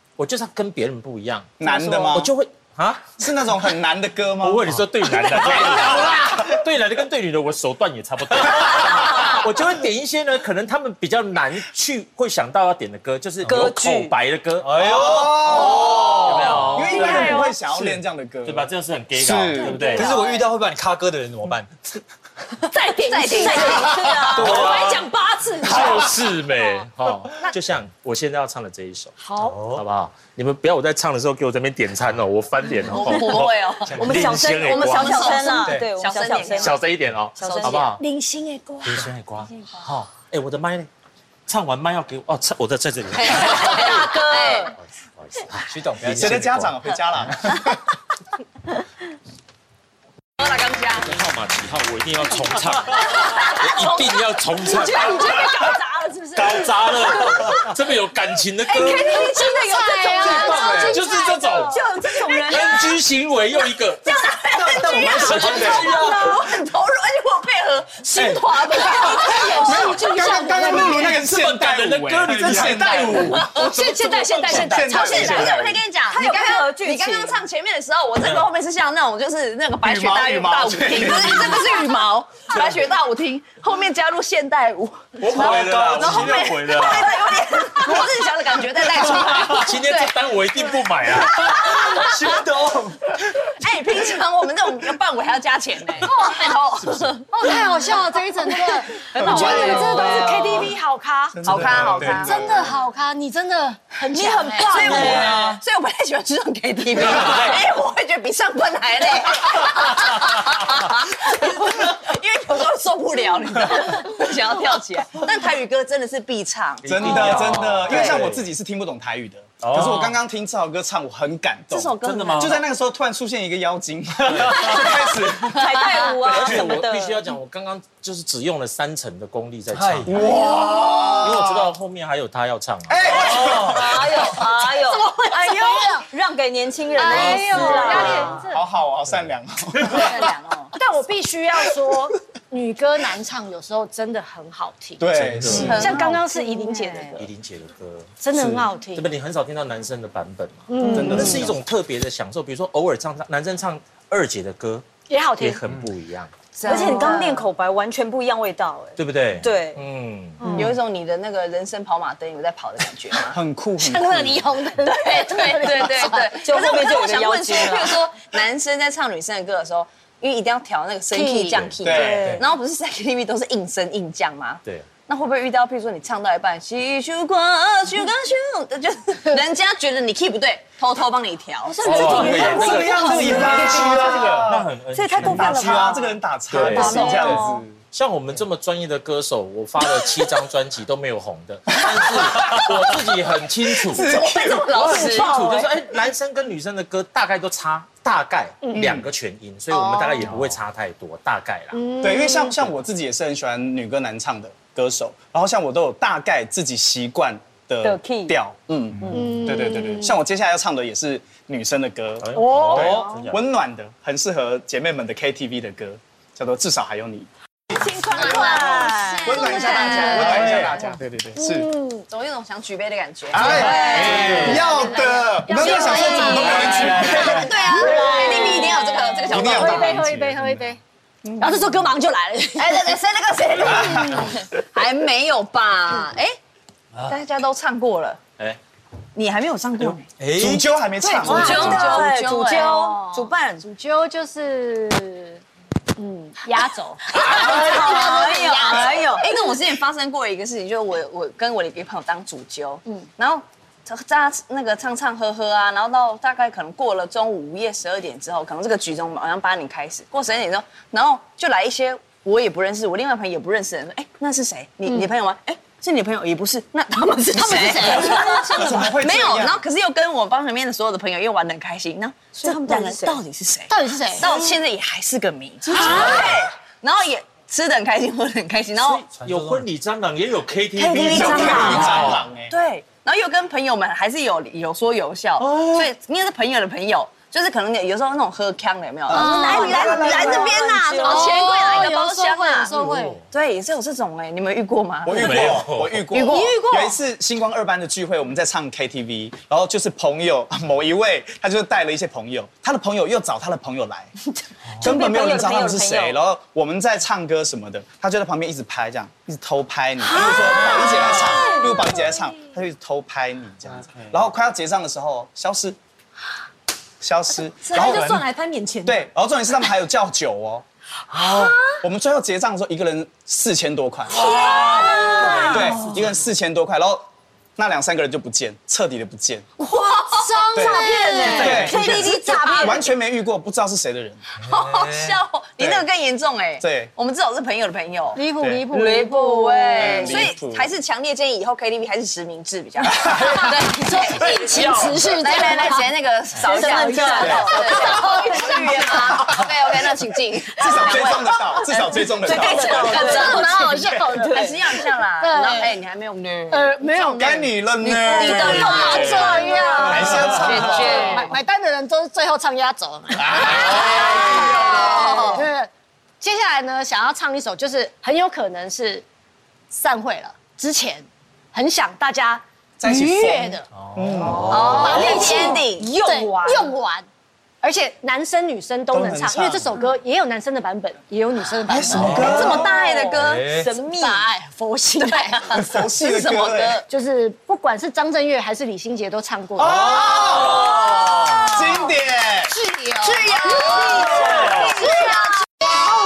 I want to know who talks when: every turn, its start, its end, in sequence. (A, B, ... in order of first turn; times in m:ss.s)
0:00.2-0:03.3 A
0:01.6-0:02.3 B
0:03.2-0:04.7 B
0:04.4-0:17.5 A
0:05.4-0:05.9 B
0:05.5-0:06.2 C
0:13.4-0:13.7 D
0:13.5-0:14.1 E
0:14.6-0:16.9 D
0:14.8-0:19.9 B
0:17.0-0:17.5 F
0:17.2-0:17.5 E
0:17.7-0:18.0 D
0:18.4-0:20.1 A
0:19.6-0:20.4 F
0:19.7-0:22.0 D
0:22.7-0:27.5 F
0:23.0-0:23.9 C
0:23.3-0:24.8 E
0:24.4-0:25.0 D
0:24.4-0:25.0 A
0:25.6-0:35.3 A
0:29.2-0:29.6 F
0:29.4-0:29.8 D
0:32.8-0:36.8 C
0:33.8-0:34.4 D
0:34.0-0:36.8 E
0:36.5-0:38.0 A
0:37.4-0:37.9 E
0:37.4-0:37.9 C
0:38.0-0:39.1 F
0:38.8-0:40.9 A
0:41.5-0:43.9 A
0:43.1-0:44.7 C
0:43.5-0:44.7 E
0:44.8-0:46.7 A
0:45.7-0:46.7 D
0:46.1-0:47.8 B
0:50.4-0:51.2 C
0:51.0-0:55.7 A
0:52.9-0:54.2 C
0:54.6-0:57.6 F
0:54.8-0:55.2 C
0:56.4-0:59.3 A
0:58.7-1:00.5 C
0:58.7-1:01.8 F
0:58.9-1:00.9 E
1:00.2-1:01.0 B
1:00.7-1:05.9 A
1:01.5-1:02.9 E
1:04.0-1:10.1 C
1:04.6-1:06.0 D
1:04.6-1:05.9 B
1:04.9-1:06.5 E
1:08.1-1:08.4 B
1:08.7-1:11.2 F
1:09.0-1:15.8 B
1:10.2-1:11.0 G
1:11.0-1:14.3 A
1:12.5-1:12.7 D
1:13.0-1:30.1 C
1:13.4-1:15.6 F
1:16.1-1:17.4 E
1:18.2-1:18.5 A
1:19.8-1:21.7 B
1:25.2-1:27.2 A
1:25.2-1:26.5 D
1:28.9-1:31.7 A
1:31.1-1:32.4 C
1:31.4-1:33.0 D
1:33.5-1:37.7 C
1:36.0-1:36.5 F
1:36.8-1:37.1 A
1:37.3-1:41.4 F
1:38.8-1:40.7 E
1:39.1-1:40.5 C
1:39.2-1:40.1 B
1:41.4-1:42.7 B
1:41.4-1:42.6 C
1:41.4-1:42.2 D
1:42.1-1:45.2 F
1:44.1-1:58.2 C
1:44.1-1:45.6 E
1:44.9-1:45.4 B
1:56.8-2:05.6 B
1:56.9-1:58.5 A
1:59.6-2:00.2 A
2:01.7-2:02.6 C
2:02.0-2:02.6 A
2:04.3-2:04.8 A
2:04.7-2:07.3 E
2:05.5-2:06.2 C
2:06.2-2:10.3 A
2:09.7-2:10.3 D
2:10.0-2:11.7 B
2:10.9-2:13.8 A
2:12.9-2:14.4 B
2:13.1-2:18.4 E
2:13.3-2:13.9 D
2:14.9-2:16.1 F
2:17.0-2:18.6 F
2:17.1-2:20.3 B
2:19.8-2:20.7 C
2:20.7-2:27.2 F
2:25.0-2:26.1 B
2:25.1-2:25.9 A
2:25.5-2:27.2 C
2:27.2-2:28.1 A
2:28.2-2:29.1 F
2:28.3-2:28.6 B
2:28.9-2:34.8 A
2:30.7-2:31.4 F
2:30.8-2:31.5 E
2:30.9-2:31.5 B
2:35.1-2:35.6 F
2:35.4-2:36.3 A
2:36.6-2:37.5 C
2:36.6-2:39.8 E
2:36.6-2:37.3 F
2:39.0-2:40.4 A
2:40.4-2:40.7 F
2:40.4-2:40.7 E
2:40.5-2:43.4 C
2:43.3-2:44.4 B
2:43.8-2:46.4 F
2:44.8-3:02.0 C
2:45.9-2:48.0 E
2:51.1-2:51.7 F
2:51.5-2:52.0 A
2:51.8-2:52.4 B
3:01.6-3:07.6 E
3:01.8-3:06.0 A
3:01.9-3:04.7 B
3:03.6-3:04.4 D
3:05.2-3:07.8 B
3:06.5-3:14.1 A
3:11.7-3:12.8 B
3:13.8-3:15.0 B
3:13.9-3:15.7 C
3:14.7-3:15.7 E
3:14.8-3:21.8 A
3:18.6-3:18.9 F
3:18.7-3:19.1 B
3:19.7-3:20.3 F
3:21.7-3:22.5 F
3:22.0-3:37.3 B
3:27.8-3:28.4 E
3:29.1-3:30.2 F
3:32.2-3:33.4 A
3:32.4-3:33.2 F
3:37.7-3:40.9 C
3:38.2-3:38.7 B
3:38.2-3:40.1 E
3:39.2-3:41.7 B
3:39.5-3:40.4 F
3:40.2-3:40.9 D
3:41.3-3:42.1 F
3:42.1-3:50.0 C
3:43.3-3:47.5 B
3:43.4-3:50.8 F
3:43.9-3:44.5 D
3:45.7-3:46.6 E
3:46.3-3:46.9 A
3:47.2-3:49.0 E
3:49.3-3:50.3 B
3:51.2-3:51.7 C
3:51.4-3:52.9 F
3:52.6-3:56.4 C
3:53.6-3:54.4 B
3:53.6-3:54.4 F
3:57.0-3:58.2 C
3:59.1-4:00.1 C
4:00.2-4:00.7 D
4:00.4-4:01.7 B
4:01.0-4:05.4 F
4:01.0-4:03.6 E
4:01.2-4:02.7 C
4:06.0-4:09.2 F
4:07.1-4:09.3 E
4:07.1-4:39.0 C
4:27.3-4:28.9 F
4:27.6-4:29.6 B
4:32.4-4:33.2 E
4:33.7-4:34.3 F
4:34.2-4:34.5 E
4:35.7-4:36.3 F
4:35.7-4:36.3 E
4:38.8-4:42.3 A
4:39.1-4:39.7 D
4:40.8-4:56.6 C
4:40.9-4:42.5 B
4:40.9-4:42.1 E
4:49.1-4:50.6 B
4:49.1-4:50.2 F
4:49.1-4:51.8 E
4:51.0-4:53.2 F
4:52.7-4:53.2 A
4:55.0-5:04.1 B
4:55.1-4:56.0 A
4:56.3-4:56.9 F
4:56.4-4:57.0 G
5:04.8-5:15.8 B
5:04.8-5:06.2 E
5:10.1-5:12.1 E
5:17.0-5:18.2 B
5:17.6-5:19.1 G
5:18.8-5:20.6 B
5:21.7-5:24.4 B
5:24.1-5:26.0 E
5:24.3-5:25.2 F
5:25.3-5:27.0 B
5:27.6-5:29.5 B
5:29.6-5:32.9 E
5:30.0-5:32.9 F
5:30.5-5:34.2 B
5:34.4-6:01.3 C
5:34.4-5:35.2 D
5:35.6-5:35.8 B
5:36.6-5:36.9 B
5:38.1-5:40.3 F
5:38.4-5:38.6 B
5:39.8-5:40.7 B
5:42.9-5:43.6 B
5:43.2-5:45.9 F
5:44.4-5:44.8 B
5:44.5-5:44.9 A
5:46.4-5:48.8 E
5:46.5-5:49.3 F
5:49.2-5:49.5 B
5:50.5-5:52.9 B
5:52.0-5:54.7 E
5:52.5-5:54.6 F
5:55.2-5:55.7 F
5:56.5-6:05.7 F
5:57.1-6:01.2 B
5:58.0-6:01.1 E
6:03.2-6:04.9 B
6:03.3-6:05.4 C
6:06.2-6:09.0 F
6:09.7-6:13.7 F
6:12.8-6:14.9 B
6:14.1-6:15.0 A
6:14.4-6:15.9 C
6:14.5-6:17.0 F
6:14.7-6:16.7 E
6:17.6-6:22.7 F
6:18.9-6:19.7 B
6:21.7-6:22.7 B
6:21.9-6:22.6 D
6:22.1-6:23.5 C
6:22.5-6:24.2 E
6:23.2-6:23.7 D
6:23.7-6:25.4 F
6:25.0-6:26.8 C
6:25.5-6:26.8 B
6:26.9-6:30.1 F
6:29.6-6:32.6 B
6:30.0-6:31.5 A
6:30.8-6:31.8 E
6:32.5-6:35.2 F
6:33.1-6:34.8 B
6:33.3-6:35.4 C
6:33.4-6:34.5 E
6:33.8-6:34.9 A